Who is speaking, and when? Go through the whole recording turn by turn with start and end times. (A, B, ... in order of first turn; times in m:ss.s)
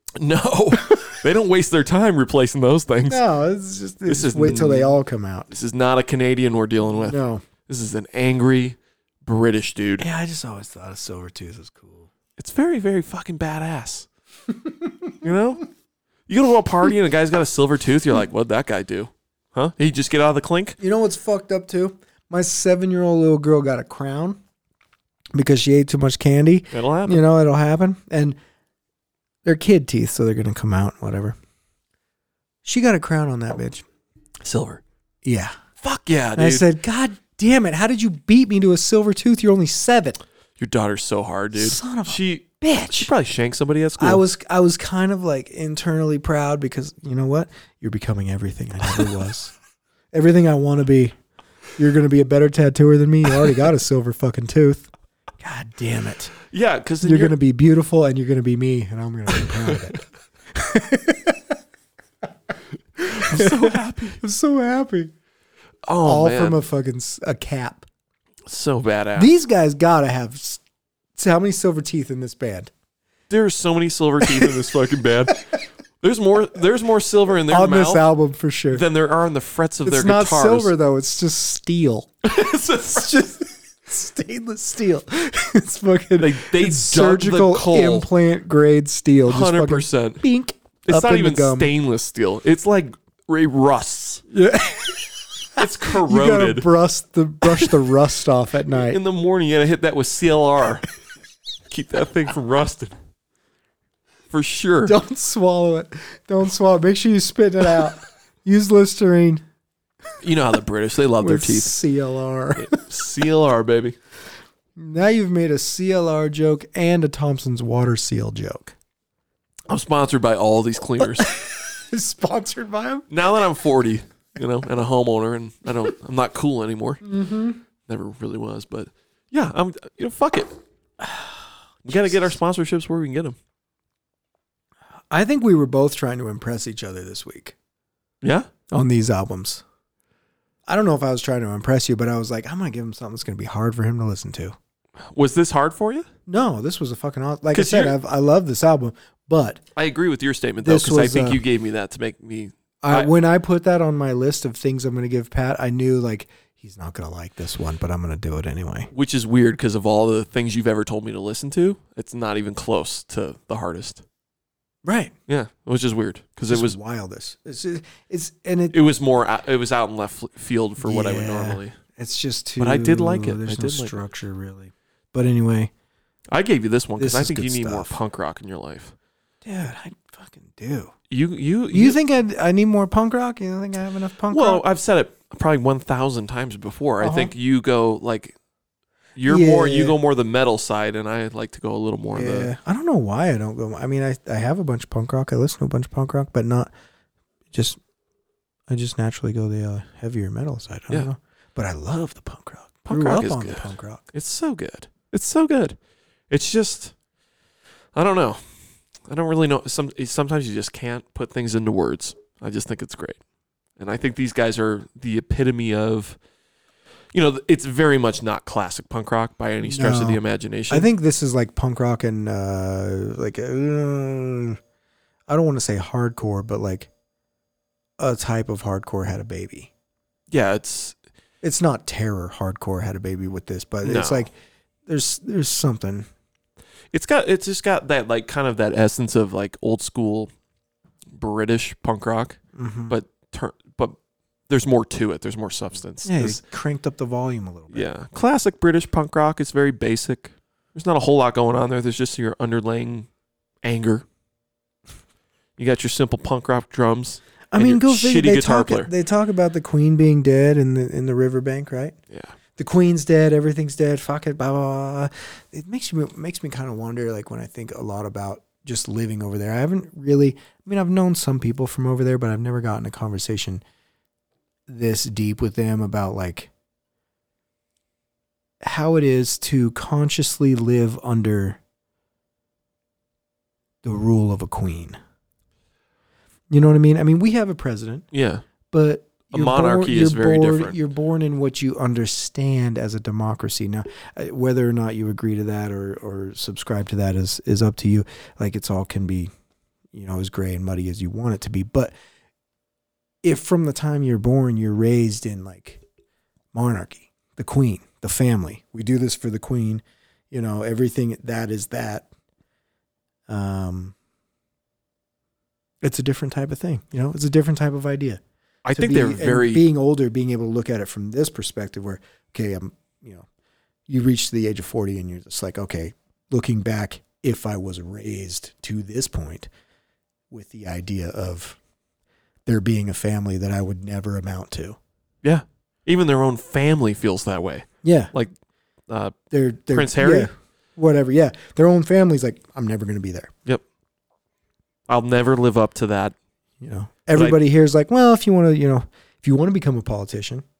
0:00.2-0:03.2 A
0:03.1-0:05.5 B
0:04.1-0:05.0 A
0:05.5-0:10.0 A
0:07.0-0:07.4 B
0:10.0-0:12.1 B
0:12.4-0:14.1 A
0:14.6-0:15.2 B
0:15.2-0:15.6 A
0:16.3-0:20.8 A
0:20.8-0:24.4 B
0:25.3-0:28.4 B
0:26.7-0:27.2 A
0:29.4-0:31.4 B
0:32.6-0:33.8 B
0:34.4-0:34.8 A
0:35.2-0:35.6 B
0:35.8-0:36.6 A
0:36.4-0:40.2 B
0:40.6-0:44.2 A
0:41.5-0:43.1 B
0:44.0-0:49.5 B
0:50.1-0:51.2 B
0:51.8-0:56.4 B
0:56.5-0:57.4 A
0:57.0-1:01.6 B
1:03.0-1:05.1 B
1:03.1-1:04.2 A
1:05.9-1:06.6 A
1:06.0-1:07.8 B
1:08.4-1:09.3 A
1:09.1-1:10.6 B
1:11.2-1:12.7 B
1:13.3-1:15.4 A
1:14.3-1:14.5 B
1:16.0-1:18.0 A
1:17.5-1:18.8 B
1:18.7-1:20.7 A
1:19.8-1:22.1 B
1:22.2-1:23.1 A
1:22.9-1:31.7 B
1:26.2-1:28.1 A
1:29.2-1:30.2 A
1:30.8-1:34.2 A
1:34.3-1:39.0 B
1:35.6-1:36.7 A
1:37.5-1:37.7 A
1:38.7-1:40.8 A
1:41.7-1:43.0 A
1:44.3-1:45.0 A
1:44.8-1:49.4 B
1:50.2-1:51.8 A
1:51.2-1:52.8 B
1:52.6-1:54.0 A
1:54.8-1:58.7 B
1:59.7-2:01.3 A
2:01.0-2:03.1 B
2:03.1-2:07.0 A
2:07.0-2:07.6 B
2:07.9-2:10.6 A
2:11.0-2:12.0 B
2:11.8-2:13.4 A
2:15.1-2:17.6 B
2:18.2-2:18.5 A
2:18.7-2:19.6 B
2:20.7-2:24.6 B
2:25.0-2:26.1 A
2:26.3-2:29.6 B
2:27.5-2:28.0 A
2:29.7-2:33.1 A
2:30.6-2:31.4 B
2:32.8-2:38.9 B
2:38.9-2:44.0 A
2:44.8-2:45.1 B
2:45.3-2:46.8 A
2:46.5-2:48.8 B
2:48.7-2:51.8 A
2:50.8-2:55.7 B
2:52.6-2:54.0 A
2:56.3-2:58.9 A
2:57.0-2:58.0 B
2:59.4-3:00.9 B
3:01.1-3:02.0 A
3:01.7-3:04.6 B
3:04.3-3:08.4 A
3:07.0-3:07.3 B
3:09.2-3:12.5 A
3:09.3-3:10.0 B
3:12.1-3:16.7 B
3:17.5-3:17.8 B
3:18.7-3:24.0 B
3:22.8-3:25.8 A
3:26.3-3:26.9 A
3:27.9-3:28.4 A
3:29.1-3:33.2 A
3:33.8-3:36.2 A
3:37.1-3:40.9 A
3:39.6-3:44.6 B
3:45.3-3:46.9 B
3:48.0-3:49.7 B
3:50.3-3:51.0 A
3:51.4-3:54.3 B
3:53.8-3:54.3 A
3:54.9-3:56.1 B
3:56.9-4:00.3 A
4:01.1-4:04.0 A
4:02.6-4:02.9 B
4:04.5-4:06.4 A
4:06.0-4:07.9 B
4:07.7-4:13.1 A
4:13.6-4:14.0 A
4:15.6-4:18.9 A
4:17.5-4:22.0 B
4:22.6-4:33.6 B
4:34.7-4:36.5 B
4:38.6-4:41.6 B
4:43.8-4:45.0 B
4:46.5-4:48.1 B
4:48.1-4:48.4 A
4:48.7-4:59.3 B
4:49.3-4:50.8 A
4:59.9-5:01.9 B
5:03.2-5:05.8 B
5:06.5-5:12.1 B
5:13.3-5:13.9 B
5:15.8-5:18.2 B
5:18.6-5:19.6 A
5:18.7-5:23.3 B
5:23.9-5:29.5 B
5:30.3-5:31.6 B
5:32.4-5:34.8 B
5:35.2-5:38.3 A
5:37.8-5:38.1 B
5:38.9-5:39.2 A
5:39.3-5:43.3 B
5:39.7-5:40.3 A
5:44.9-5:46.1 A
5:46.6-5:50.4 B
5:47.1-5:47.4 A